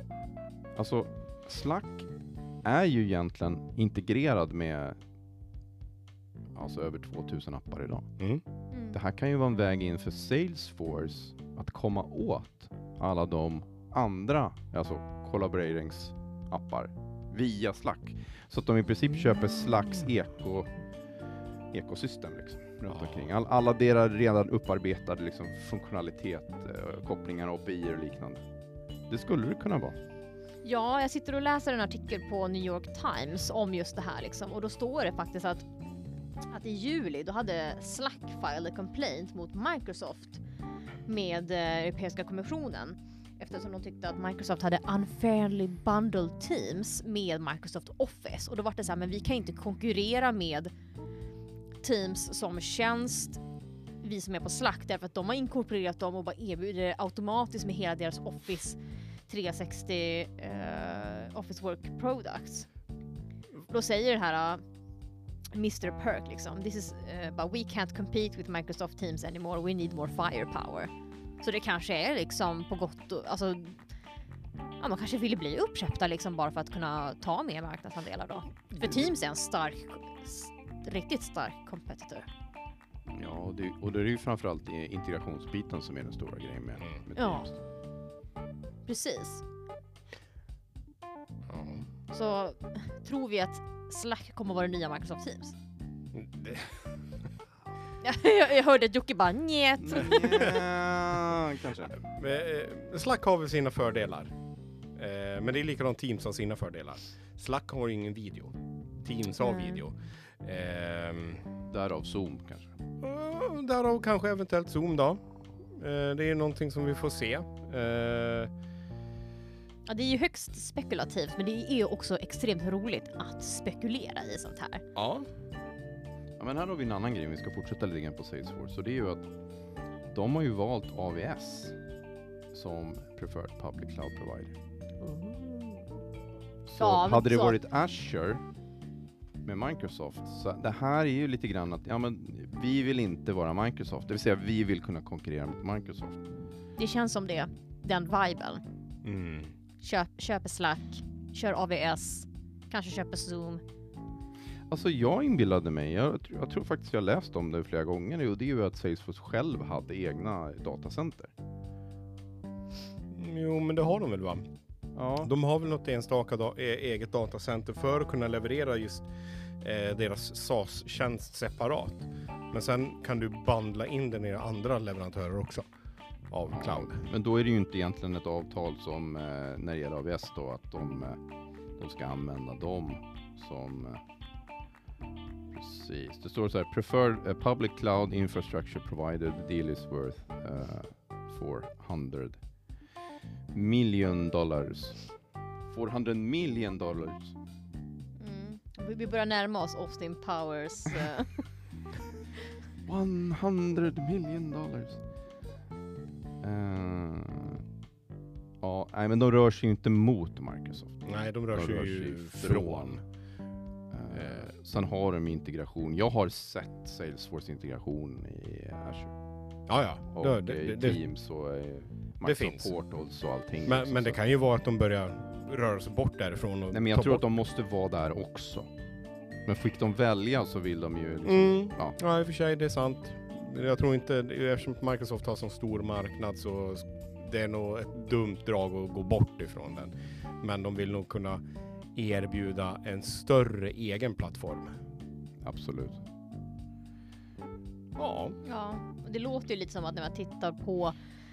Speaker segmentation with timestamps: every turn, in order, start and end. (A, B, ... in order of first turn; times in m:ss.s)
0:00.8-0:02.1 A
0:02.6-0:05.0 A
0:06.5-0:08.1 A
0:08.7-0:09.0 B
0:08.9-0:20.7 A
0:21.7-0:28.4 A
0:29.1-0:30.0 A
0:30.6-0:35.7 B
0:36.5-0:40.4 B
0:41.1-0:50.7 B
0:51.8-0:53.4 B
0:54.0-1:02.7 B
1:03.7-1:04.6 B
1:05.5-1:13.9 B
1:14.8-1:22.3 B
1:23.1-1:27.6 A
1:27.2-1:27.5 B
1:28.9-1:29.4 B
1:31.5-1:31.8 C
1:32.1-1:35.6 B
1:36.1-1:36.9 C
1:38.0-1:40.4 B
1:39.8-1:42.0 A
1:42.0-1:44.3 C
1:45.0-1:51.5 C
1:49.4-1:49.8 B
1:51.7-1:52.7 A
1:53.0-1:58.5 C
1:59.9-2:04.8 B
2:05.0-2:05.3 C
2:06.4-2:09.3 A
2:10.1-2:11.8 A
2:12.5-2:14.6 A
2:15.0-2:15.9 B
2:16.7-2:18.4 A
2:16.8-2:17.6 B
2:19.4-2:26.2 A
2:26.8-2:28.6 B
2:29.0-2:29.5 C
2:29.8-2:33.6 B
2:34.7-2:41.3 A
2:43.1-2:44.5 C
2:45.0-2:45.3 A
2:45.2-2:49.1 C
2:49.6-2:55.7 C
2:56.3-2:57.0 C
2:56.5-3:01.2 A
3:01.8-3:04.0 A
3:05.5-3:12.4 A
3:13.5-3:15.0 A
3:15.7-3:17.4 A
3:18.2-3:21.5 B
3:22.8-3:25.0 A
3:26.4-3:27.6 A
3:28.6-3:33.0 A
3:31.1-3:33.0 C
3:33.9-3:39.1 A
3:39.7-3:41.0 C
3:40.1-3:44.2 A
3:42.2-3:42.7 C
3:43.7-3:47.2 C
3:46.7-3:48.7 A
3:49.4-3:52.0 A
3:51.3-4:01.4 C
4:02.0-4:04.8 C
4:05.4-4:06.0 A
4:08.0-4:08.4 C
4:08.4-4:11.0 B